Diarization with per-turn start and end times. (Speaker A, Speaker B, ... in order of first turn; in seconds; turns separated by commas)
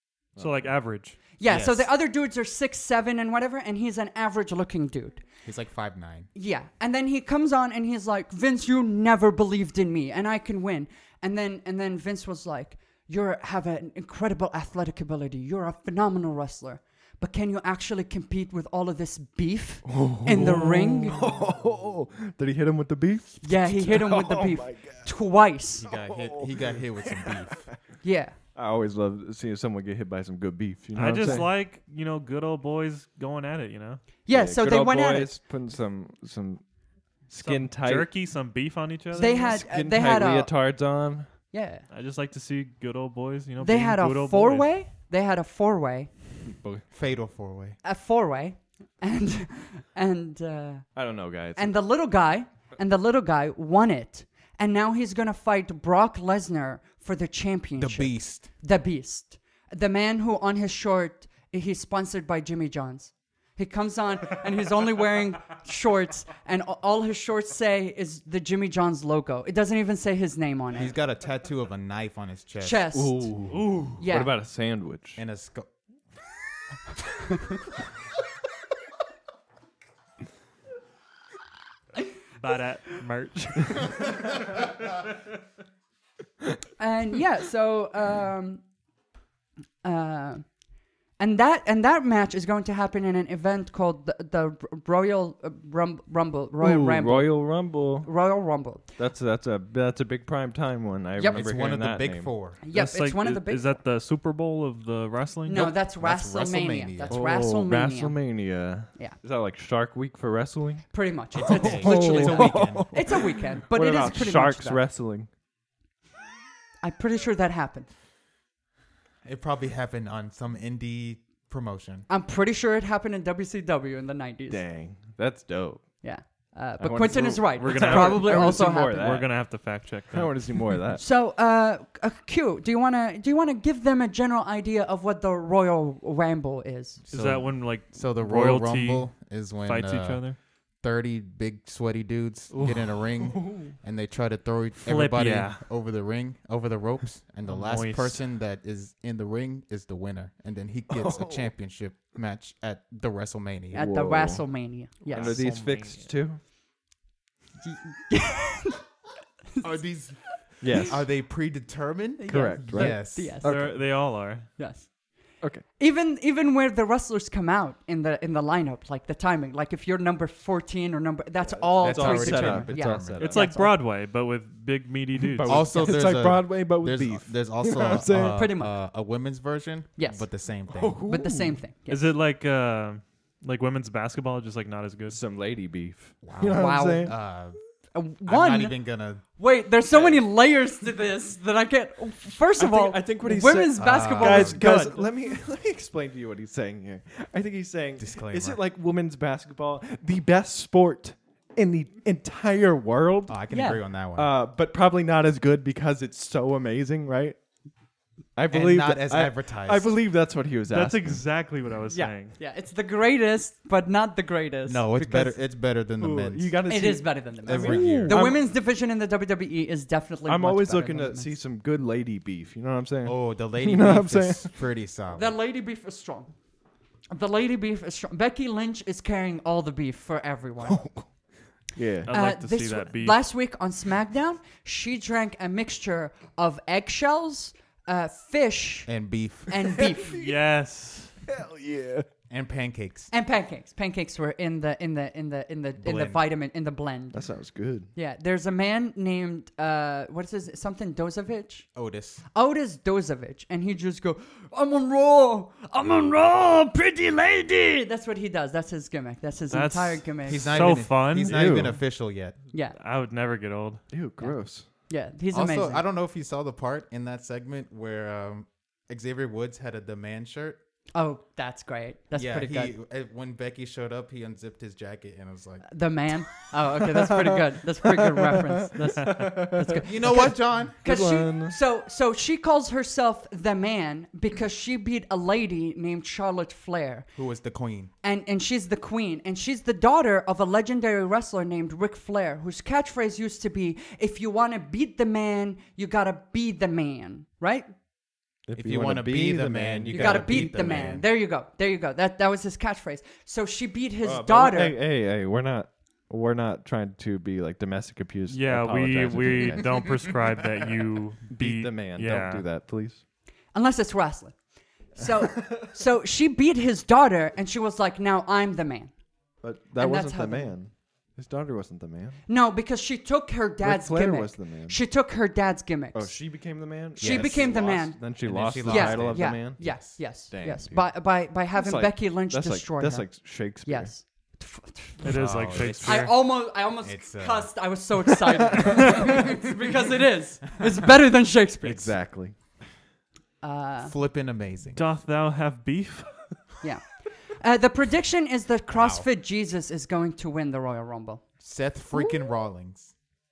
Speaker A: 0.3-0.8, Speaker B: 0.4-1.2, Speaker C: 1.4-5.2, Speaker D: 1.4-1.9, Speaker D: 5.4-6.3, Speaker C: 6.3-21.2, Speaker A: 19.9-25.1, Speaker C: 23.4-25.9, Speaker D: 25.8-27.7, Speaker A: 25.8-27.8, Speaker C: 28.0-28.4, Speaker A: 28.5-31.5, Speaker B: 30.9-34.0, Speaker C: 34.2-35.4, Speaker A: 34.3-36.6, Speaker A: 37.3-38.1, Speaker B: 37.4-39.6, Speaker C: 39.1-40.5, Speaker A: 39.4-41.3, Speaker C: 41.5-41.8, Speaker B: 41.9-44.7, Speaker C: 43.6-46.1, Speaker A: 46.4-46.8, Speaker D: 46.9-47.8, Speaker C: 47.8-50.9, Speaker A: 50.9-51.8, Speaker C: 51.5-71.0, Speaker D: 57.8-58.5, Speaker D: 70.8-72.8, Speaker C: 72.6-73.3, Speaker A: 72.9-75.2, Speaker B: 73.5-74.0, Speaker C: 74.0-74.3, Speaker D: 75.2-75.7, Speaker B: 82.4-84.1, Speaker C: 86.8-88.6, Speaker C: 89.8-90.5, Speaker C: 91.2-98.8, Speaker A: 96.6-98.2, Speaker A: 98.9-102.3, Speaker C: 101.2-101.5, Speaker D: 101.3-102.6, Speaker C: 102.6-103.8, Speaker B: 102.7-105.7, Speaker C: 105.5-108.2, Speaker D: 105.5-107.2, Speaker A: 107.1-110.9, Speaker C: 110.9-114.8, Speaker D: 111.3-113.0, Speaker A: 111.4-115.3, Speaker C: 116.8-117.9, Speaker D: 119.2-122.1, Speaker C: 122.1-124.6, Speaker A: 124.5-126.0, Speaker C: 126.0-129.1, Speaker A: 126.8-131.0, Speaker B: 127.6-130.6, Speaker C: 131.0-137.0, Speaker D: 137.1-140.2, Speaker B: 137.1-139.1, Speaker B: 139.6-140.4, Speaker D: 140.8-154.0, Speaker A: 142.5-143.7, Speaker B: 144.8-145.6, Speaker B: 147.5-148.2, Speaker A: 150.9-151.5, Speaker C: 153.7-155.4, Speaker A: 153.7-154.5, Speaker A: 155.1-156.4, Speaker B: 155.1-156.1, Speaker C: 157.6-158.8, Speaker D: 159.6-163.4, Speaker A: 160.6-161.0, Speaker C: 162.2-163.9, Speaker A: 162.3-163.8, Speaker B: 163.4-164.5, Speaker C: 164.6-165.0, Speaker C: 165.8-173.7, Speaker A: 171.5-173.4, Speaker D: 171.8-173.3, Speaker B: 173.2-175.6, Speaker A: 175.2-178.5, Speaker D: 175.4-181.0, Speaker C: 178.2-178.7, Speaker C: 180.0-180.2, Speaker A: 180.7-181.6, Speaker C: 181.0-182.1, Speaker B: 181.9-185.2, Speaker A: 185.1-187.2, Speaker D: 186.2-187.6, Speaker C: 186.5-187.1, Speaker C: 187.9-188.8, Speaker D: 188.2-189.2, Speaker C: 189.3-195.0, Speaker A: 189.9-190.2, Speaker A: 192.6-203.4, Speaker D: 193.8-194.6, Speaker D: 198.0-198.6, Speaker D: 203.3-204.3, Speaker C: 203.5-203.8, Speaker A: 204.1-207.4, Speaker A: 208.3-211.2, Speaker D: 208.5-209.9, Speaker B: 210.7-212.3, Speaker C: 211.9-215.3, Speaker D: 214.7-216.5, Speaker A: 215.9-218.4, Speaker C: 216.7-221.3, Speaker D: 217.4-218.3, Speaker A: 220.2-224.5, Speaker D: 223.0-225.3, Speaker C: 225.1-226.3, Speaker C: 227.1-230.9, Speaker A: 230.6-231.1, Speaker A: 231.7-232.1, Speaker B: 232.1-233.2, Speaker C: 232.1-238.9, Speaker D: 238.9-239.8, Speaker C: 239.5-240.2, Speaker B: 240.2-241.1, Speaker A: 241.3-242.1, Speaker D: 242.3-243.1, Speaker C: 243.1-247.2, Speaker D: 245.8-246.2, Speaker A: 247.1-247.9, Speaker C: 247.9-251.7, Speaker D: 251.7-252.2, Speaker C: 252.3-260.5, Speaker B: 259.5-261.4, Speaker D: 260.3-262.4, Speaker A: 261.2-261.8, Speaker B: 262.8-263.8, Speaker A: 263.9-264.7, Speaker C: 264.2-265.8, Speaker D: 265.3-270.6, Speaker C: 270.9-272.7, Speaker D: 272.1-275.7, Speaker C: 275.6-287.1, Speaker A: 277.6-281.6, Speaker D: 279.8-280.8, Speaker D: 287.1-287.9, Speaker C: 288.0-297.7, Speaker A: 298.4-301.0, Speaker D: 298.5-301.1, Speaker C: 299.9-304.8, Speaker A: 304.0-309.9, Speaker B: 308.3-312.4, Speaker A: 311.3-313.0, Speaker C: 313.5-314.4, Speaker C: 314.9-318.9, Speaker A: 319.4-322.2, Speaker C: 319.8-320.6, Speaker C: 322.3-326.1, Speaker A: 323.6-324.8, Speaker A: 325.9-333.9, Speaker C: 326.9-342.0, Speaker D: 327.0-330.0, Speaker B: 335.0-336.1, Speaker D: 335.1-337.6, Speaker D: 338.6-339.3, Speaker A: 341.6-342.4, Speaker C: 343.4-343.9, Speaker D: 343.8-344.8, Speaker B: 344.7-346.2, Speaker C: 346.6-351.2, Speaker D: 348.7-349.1, Speaker D: 351.4-352.9, Speaker C: 351.9-352.2